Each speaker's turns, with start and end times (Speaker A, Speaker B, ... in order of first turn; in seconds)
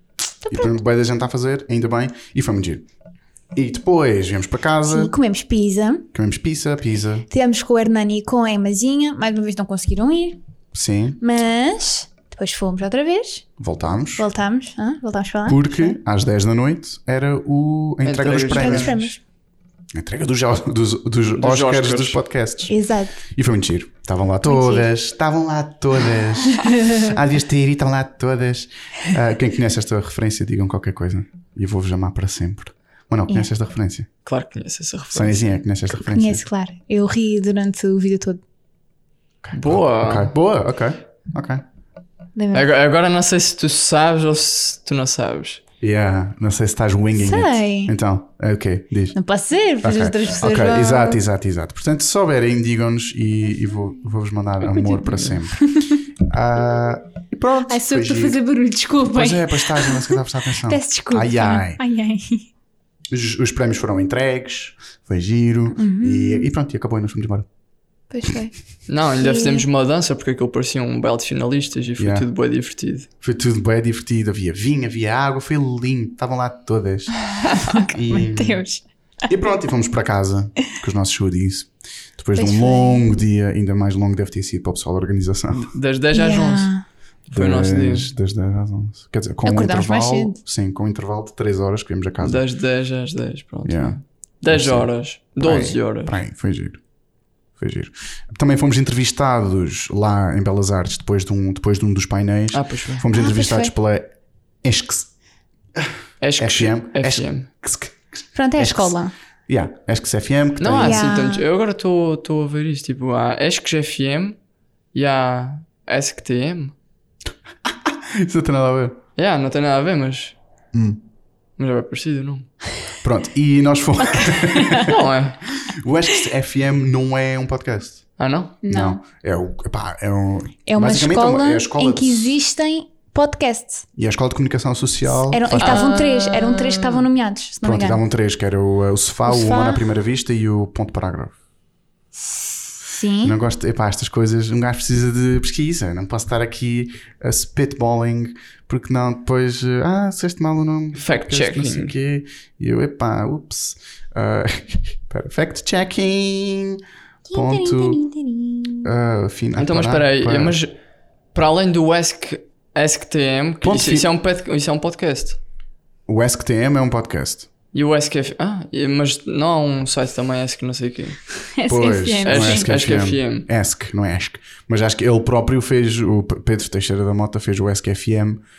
Speaker A: 0.4-0.8, 4.9-6.0, 7.3-10.4, 11.2-13.4, 14.2-16.0, 18.5-19.2, 22.7-23.2, 24.4-24.9, 26.5-27.1, 36.1-38.4, 42.4-42.7, 47.1-47.9, 49.1-51.2, 55.6-55.9, 57.6-62.5, 65.7-66.5, 68.1-68.5, 69.2-69.7, 77.7-78.8, 82.3-83.1, 86.1-86.8, 89.4-90.4, 103.1-103.7, 108.3-109.1, 110.8-111.4, 124.1-124.9, 128.6-129.0, 130.7-133.8, 135.3-138.0, 139.2-139.8, 142.2-143.3, 157.3-158.9, 171.6-172.7
Speaker B: 0.5-2.9, 3.5-5.1, 6.1-7.3, 10.7-11.2, 13.6-14.3, 15.4-18.9, 19.9-22.8, 23.3-34.1, 35.1-36.4, 39.4-41.6, 45.8-49.2, 49.8-58.4, 59.1-61.8, 63.1-67.5, 72.0-72.3, 73.2-78.6, 79.3-85.7, 87.3-92.4, 93.6-96.8, 97.6-104.1, 104.6-105.1, 105.7-108.0, 108.6-109.0, 109.5-111.2, 117.7-119.0, 120.7-121.0, 123.0-125.0, 125.6-128.0, 128.7-132.4, 133.9-136.0, 137.6-141.3, 143.2-156.8, 157.3-158.0, 158.8-160.6, 163.6-164.1, 166.1-167.5, 171.7-178.4
Speaker C: 18.0-19.1, 21.4-22.2, 34.2-35.5, 39.5-40.3, 42.5-45.6, 68.9-73.1, 85.5-88.1, 92.2-96.2, 102.5-103.0, 106.2-107.5, 110.6-114.4, 114.9-116.7, 119.2-120.3, 121.6-122.5, 124.8-125.4, 128.2-128.6, 150.9-151.9, 159.6-160.7, 161.3-165.4, 167.7-171.2, 172.2-173.5